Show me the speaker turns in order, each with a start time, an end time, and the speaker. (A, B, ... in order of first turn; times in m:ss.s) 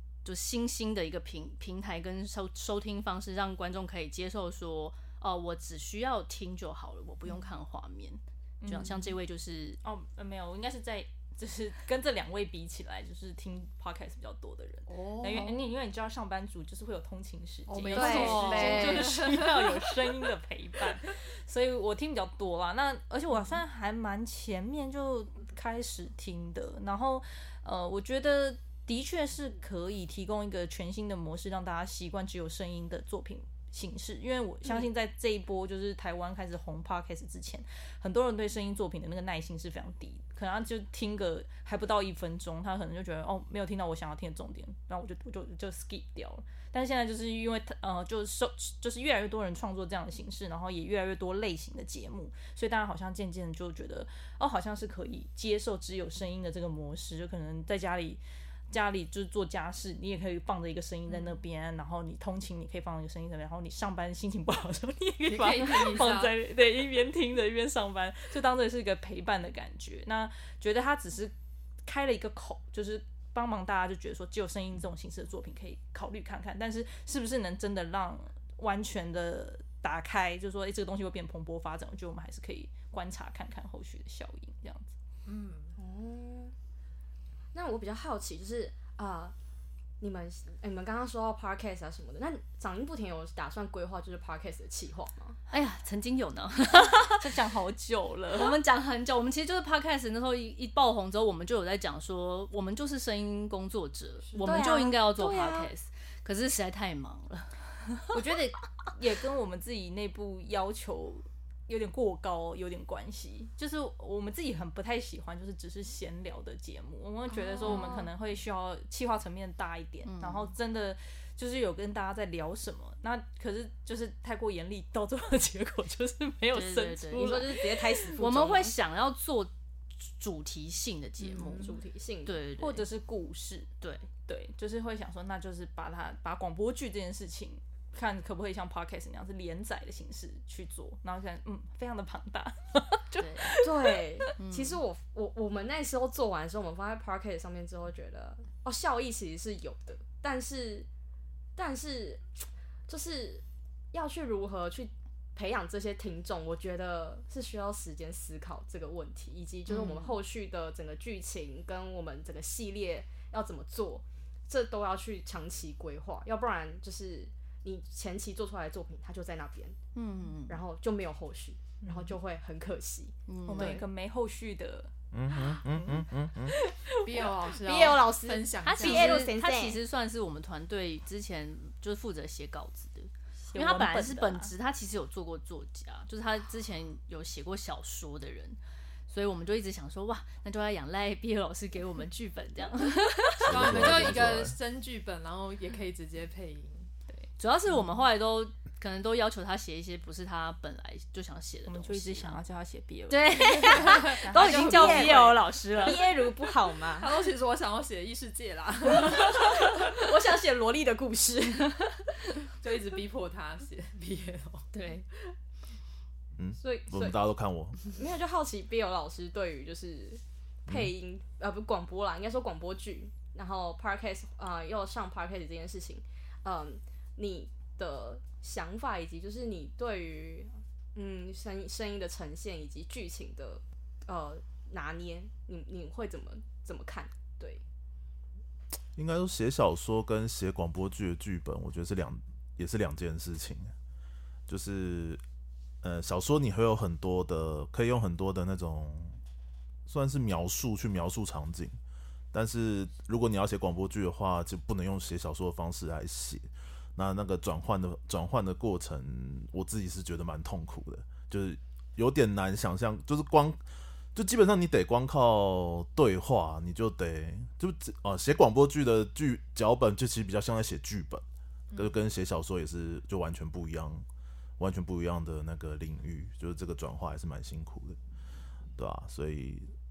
0:00.2-0:09.8 A
0:08.6-0:09.1 B
0:09.8-1:11.3 B
0:14.9-0:15.6 C
0:17.7-0:19.9 C
0:17.9-0:19.1 A
0:17.9-0:19.2 D
1:05.3-1:06.3 C
1:11.8-1:24.9 B
1:25.2-1:25.8 C
1:25.8-1:26.5 D
1:27.5-1:29.3 D
1:30.0-1:35.4 D
1:35.5-1:37.3 A
1:36.9-1:38.6 B
1:38.3-1:47.5 A
1:44.2-1:44.6 C
1:44.4-1:45.7 D
1:48.1-2:08.1 B
1:57.3-1:58.0 D
1:57.6-1:58.0 A
2:00.0-2:00.5 A
2:06.5-2:07.6 A
2:07.1-2:08.7 D
2:08.2-2:12.8 A
2:11.2-2:12.3 D
2:12.6-2:13.7 B
2:13.8-2:14.1 A
2:14.2-2:24.3 B
2:23.2-2:23.6 A
2:23.6-2:30.9 D
2:24.4-2:24.8 A
2:31.6-2:49.8 D
2:39.7-2:40.2 A
2:49.9-2:50.6 A
2:50.5-2:53.8 D
2:53.3-2:53.8 A
2:53.5-2:56.7 B
2:55.1-2:56.6 E
2:57.0-2:59.3 C
2:57.5-2:59.8 D
2:58.6-3:08.6 A
3:03.5-3:04.5 B
3:09.1-3:13.8 A
3:13.4-3:14.6 E
3:13.4-3:16.9 C
3:17.4-3:22.4 A
3:21.6-3:25.4 B
3:23.1-3:26.3 A
3:24.3-3:27.1 D
3:27.0-3:29.8 C
3:29.2-3:32.0 D
3:32.6-3:34.7 C
3:34.7-3:35.0 A
3:36.4-3:37.8 E
3:36.6-3:37.2 D
3:37.9-3:57.6 D
3:59.0-4:03.7 E
4:04.5-4:05.2 E
4:05.8-4:09.2 E
4:09.8-4:11.8 E
4:12.3-4:23.6 E
4:24.1-4:34.0 E
4:34.6-4:38.0 E
4:38.8-4:39.7 E